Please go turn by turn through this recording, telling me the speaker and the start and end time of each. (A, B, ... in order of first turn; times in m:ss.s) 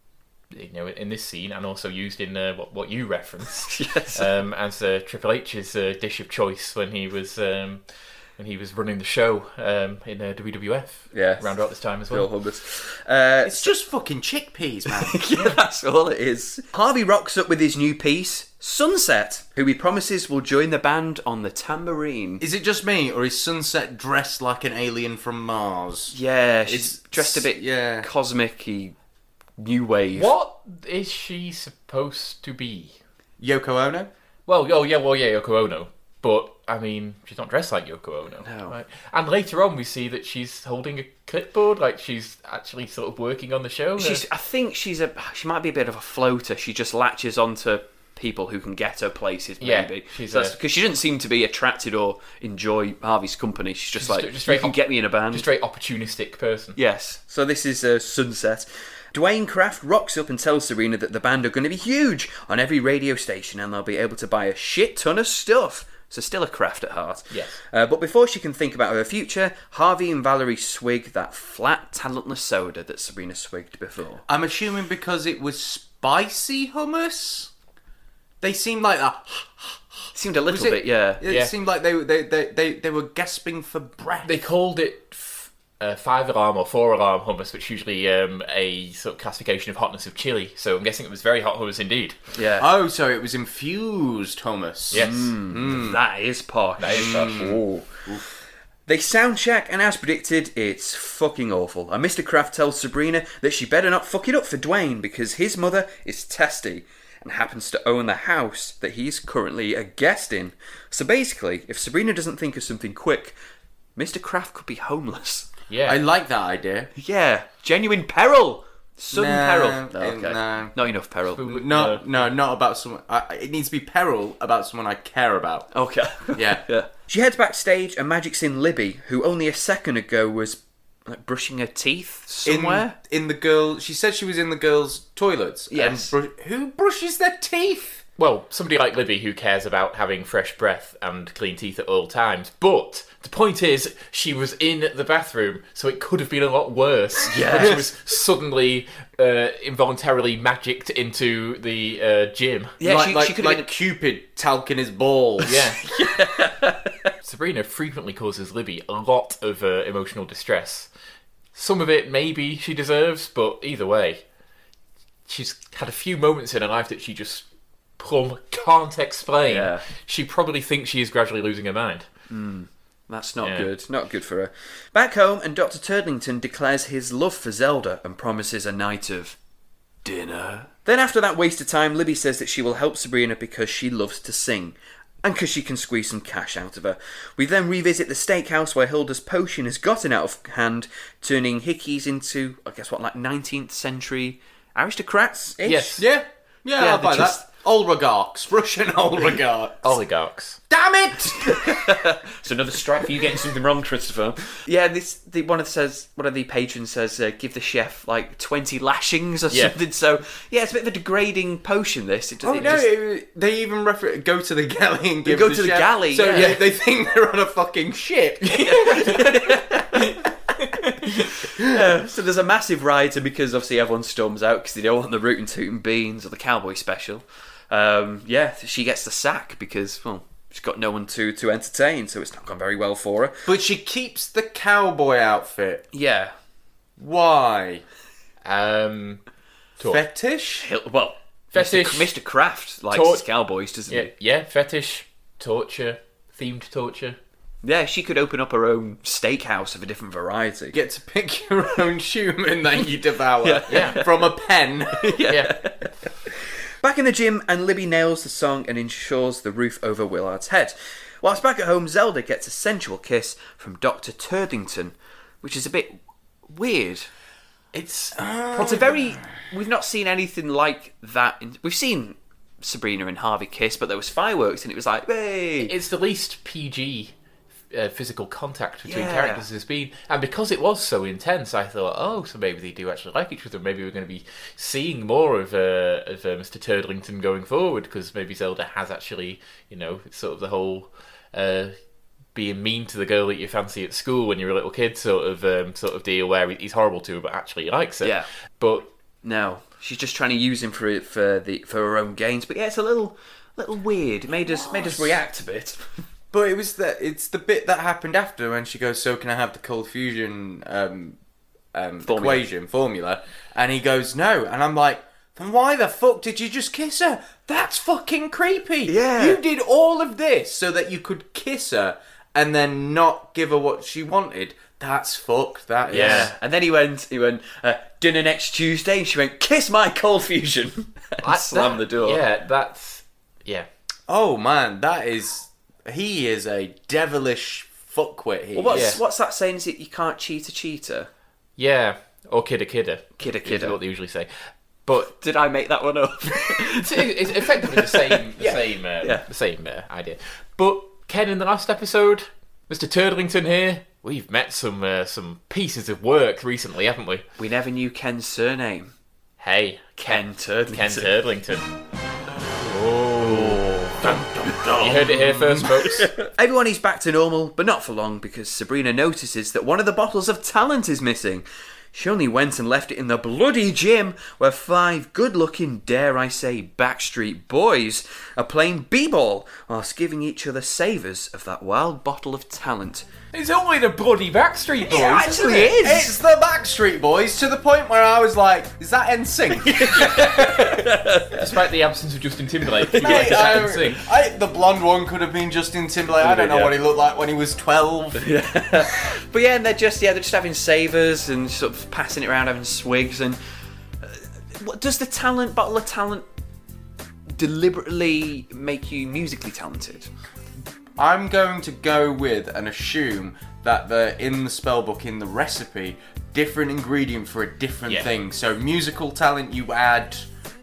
0:00.5-0:07.8 A
0:03.7-0:04.3 B
0:08.4-0:12.3 A
0:11.1-0:11.4 B
0:12.1-0:13.7 B
0:13.4-0:15.2 C
0:14.9-0:22.4 B
0:22.4-0:26.2 C
0:26.1-0:29.0 B
0:26.7-0:28.1 C
0:29.6-0:30.3 B
0:30.1-0:32.9 A
0:33.4-0:34.1 C
0:34.5-0:44.2 A
0:38.4-0:38.8 B
0:44.0-0:55.5 B
0:49.6-0:50.6 A
0:54.0-0:56.8 A
0:56.8-1:14.2 B
1:14.3-1:17.5 C
1:18.4-1:24.3 C
1:20.1-1:21.2 B
1:21.2-1:21.5 A
1:24.2-1:32.2 A
1:32.3-1:32.7 B
1:32.6-1:36.0 C
1:34.9-1:35.4 A
1:34.9-1:38.1 B
1:36.8-1:37.5 A
1:36.9-1:38.2 C
1:38.9-1:53.3 B
1:54.0-1:55.5 B
1:55.7-1:56.0 A
1:55.8-1:56.9 C
1:57.0-2:01.5 B
1:59.1-2:00.8 C
2:01.4-2:02.3 A
2:01.4-2:05.7 C
2:05.7-2:13.0 B
2:06.3-2:06.6 C
2:12.4-2:18.0 C
2:15.7-2:16.1 B
2:18.2-2:32.8 A
2:27.3-2:27.8 B
2:32.8-2:33.7 B
2:32.8-2:35.6 C
2:35.4-2:35.8 A
2:35.8-2:37.1 B
2:37.2-2:40.9 A
2:41.5-2:44.2 A
2:45.3-2:47.4 A
2:48.0-2:52.1 A
2:49.5-2:49.8 B
2:52.3-2:59.4 B
2:53.4-2:53.7 A
3:00.0-3:16.1 B
3:15.6-3:16.0 A
3:16.0-3:20.0 C
3:16.8-3:17.4 B
3:19.8-3:20.6 A
3:20.7-3:22.0 C
3:21.3-3:32.9 B
3:29.5-3:29.8 A
3:32.4-3:39.3 C
3:35.2-3:36.6 B
3:38.5-3:40.3 B
3:38.9-3:39.2 A
3:41.2-3:53.4 B
3:53.4-3:55.8 C
3:55.9-3:56.3 B
3:57.0-3:57.8 C
3:58.4-3:59.2 A
3:59.8-4:00.7 C
4:00.6-4:04.1 B
4:01.5-4:02.1 A
4:02.9-4:03.2 A
4:03.9-4:07.2 A
4:07.6-4:10.8 B
4:10.7-4:15.2 C
4:13.4-4:14.3 B
4:13.7-4:14.0 A
4:14.9-4:15.9 B
4:15.3-4:15.6 A
4:16.8-4:26.0 B
4:26.5-4:27.1 B
4:27.7-4:28.2 A
4:28.1-4:29.2 C
4:28.5-4:35.7 B
4:35.6-4:37.1 A
4:37.7-4:51.8 A
4:38.8-4:39.4 B
4:52.3-4:58.8 A
4:58.0-4:58.3 B
4:59.2-5:05.9 B
5:04.4-5:05.2 C
5:06.3-5:11.2 C
5:11.7-5:26.3 C
5:12.0-5:12.4 B
5:18.9-5:19.4 B
5:25.9-5:32.2 B
5:25.9-5:26.3 A
5:31.2-5:33.7 A
5:34.1-5:39.0 C
5:38.5-5:41.1 B
5:38.7-5:39.0 A
5:41.6-5:44.3 A
5:43.2-5:43.8 B
5:44.8-5:45.1 A
5:45.0-5:49.2 B
5:46.7-5:57.2 A
5:57.4-5:58.9 B
5:59.4-6:01.7 A
6:00.0-6:01.1 B
6:02.6-6:06.1 A
6:03.2-6:06.0 C
6:06.1-6:23.1 B
6:23.3-6:25.7 A
6:24.8-6:26.1 B
6:24.9-6:30.8 C
6:29.5-6:31.5 B
6:31.3-6:34.1 A
6:32.8-6:33.6 B
6:33.0-6:38.4 C
6:36.2-6:36.8 B
6:38.2-6:43.4 B
6:44.0-6:46.2 B
6:47.4-6:50.1 B
6:51.0-7:00.3 C